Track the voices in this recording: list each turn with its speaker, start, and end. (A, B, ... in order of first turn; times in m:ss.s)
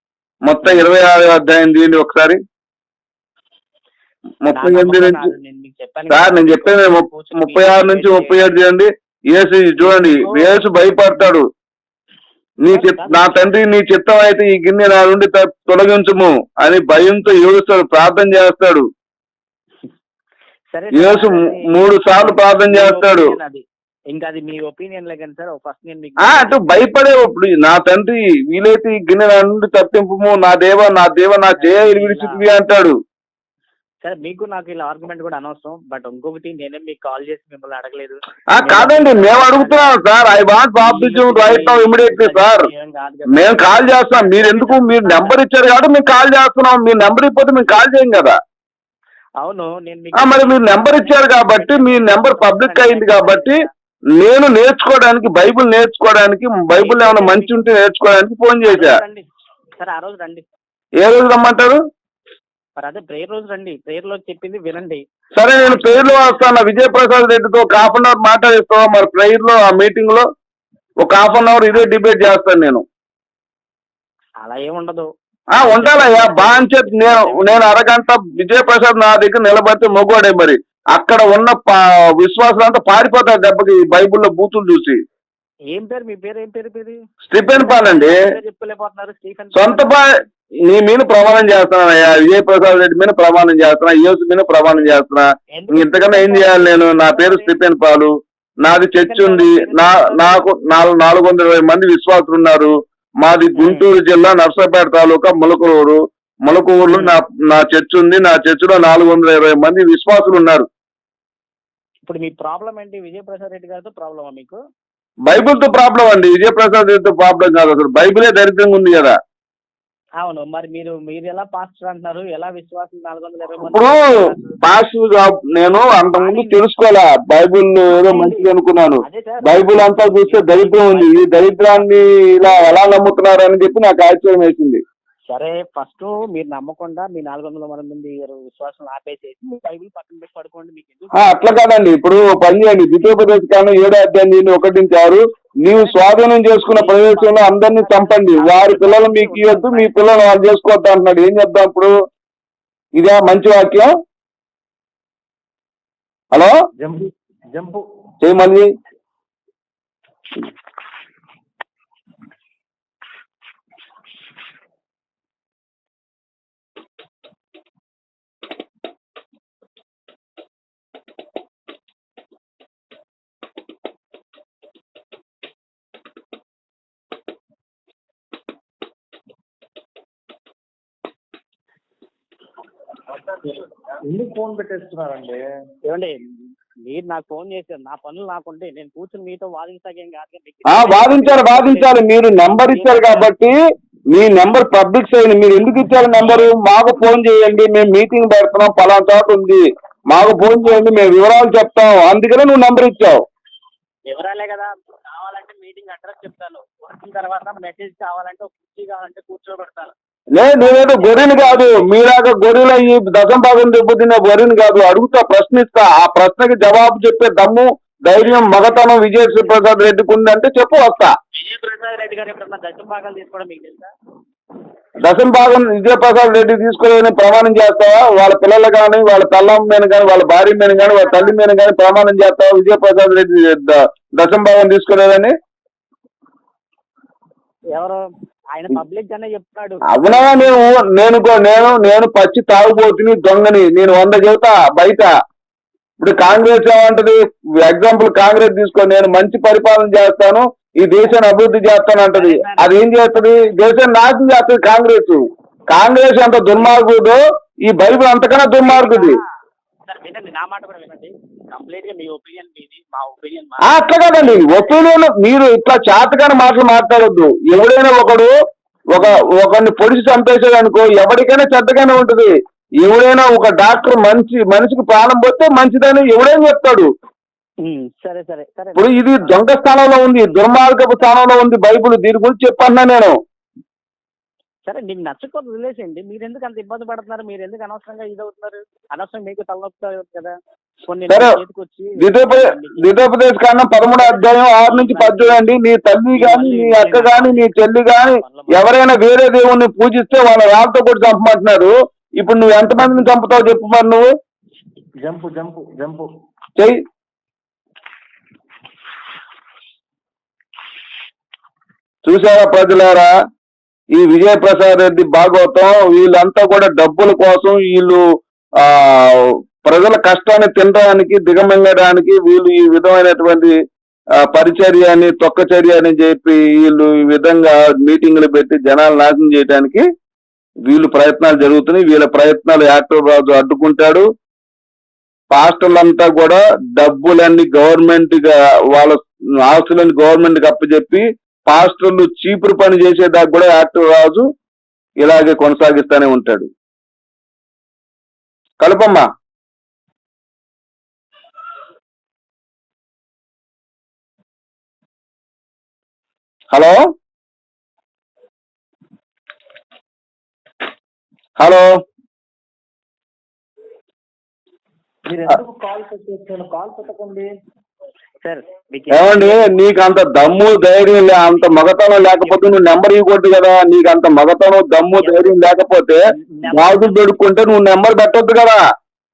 0:00.4-0:02.4 A
0:04.4-0:05.3 A
0:04.5-0:08.5 B
0:06.1-0:11.5 A
0:09.8-0:10.6 B
0:12.6-0:18.9 A
0:12.7-0:13.3 B
0:20.7-0:26.6 B
0:20.9-0:23.3 A
0:26.2-0:32.9 A
0:31.6-0:32.4 B
0:34.0-0:40.0 B
0:38.5-0:42.7 A
0:40.8-0:45.4 B
0:43.3-0:48.4 A
0:49.4-0:53.7 B
0:50.1-0:53.6 A
0:54.2-0:59.0 A
0:56.7-0:57.6 B
0:58.6-0:59.2 B
0:59.8-1:00.5 B
1:01.0-1:01.8 A
1:02.8-1:05.0 B
1:05.3-1:10.2 A
1:05.6-1:06.4 B
1:11.0-1:12.8 A
1:14.4-1:15.1 B
1:15.5-1:25.0 A
1:15.6-1:17.8 B
1:25.7-1:27.0 B
1:27.2-1:28.2 A
1:27.6-1:30.2 B
1:29.5-1:30.1 A
1:30.6-1:50.7 A
1:35.5-1:37.5 B
1:39.0-1:40.4 B
1:43.6-1:43.8 B
1:52.0-1:54.6 B
1:55.2-1:59.2 A
2:00.2-2:04.6 B
2:03.6-2:04.1 A
2:04.6-2:14.8 A
2:06.2-2:06.6 B
2:07.9-2:08.5 B
2:09.0-2:12.7 B
2:15.3-2:21.4 B
2:21.1-2:31.9 A
2:25.7-2:29.9 B
2:33.0-2:33.9 A
2:36.8-2:37.8 C
2:38.2-2:38.7 A
3:04.0-3:05.4 C
3:05.8-3:06.2 B
3:06.8-3:12.0 B
3:10.7-3:13.5 A
3:12.7-3:13.3 B
3:14.1-3:23.2 A
3:16.2-3:16.5 B
3:24.1-3:29.9 B
3:30.3-3:41.1 A
3:30.6-3:31.8 B
3:41.3-3:43.9 B
3:45.0-3:55.3 A
3:50.8-3:51.3 B
3:57.7-4:00.7 B
3:59.9-4:05.1 A
4:06.0-4:19.2 A
4:12.1-4:13.2 B
4:18.6-4:19.2 B
4:19.8-4:24.8 B
4:23.6-4:28.3 A
4:28.9-4:36.9 A
4:28.9-4:29.2 B
4:37.6-4:39.4 B
4:38.8-4:43.2 A
4:44.6-4:50.4 B
4:50.9-4:53.0 B
4:51.1-4:51.4 A
4:52.0-5:04.1 A
4:54.0-4:55.4 B
4:56.1-4:57.5 B
4:58.1-4:58.7 B
5:05.0-5:06.1 C
5:12.0-5:13.1 A
5:13.9-5:18.0 A
5:18.6-5:23.5 A
5:24.2-5:29.8 A
5:30.6-5:34.0 A
5:35.3-5:44.2 A
5:45.0-5:46.5 A
5:48.6-5:49.1 A
5:56.5-5:56.8 A
6:01.4-6:01.7 A
6:05.0-6:07.3 C
6:08.2-6:09.6 B
6:08.9-6:18.6 A
6:12.2-6:12.5 B
6:15.0-6:15.3 B
6:16.4-6:17.0 B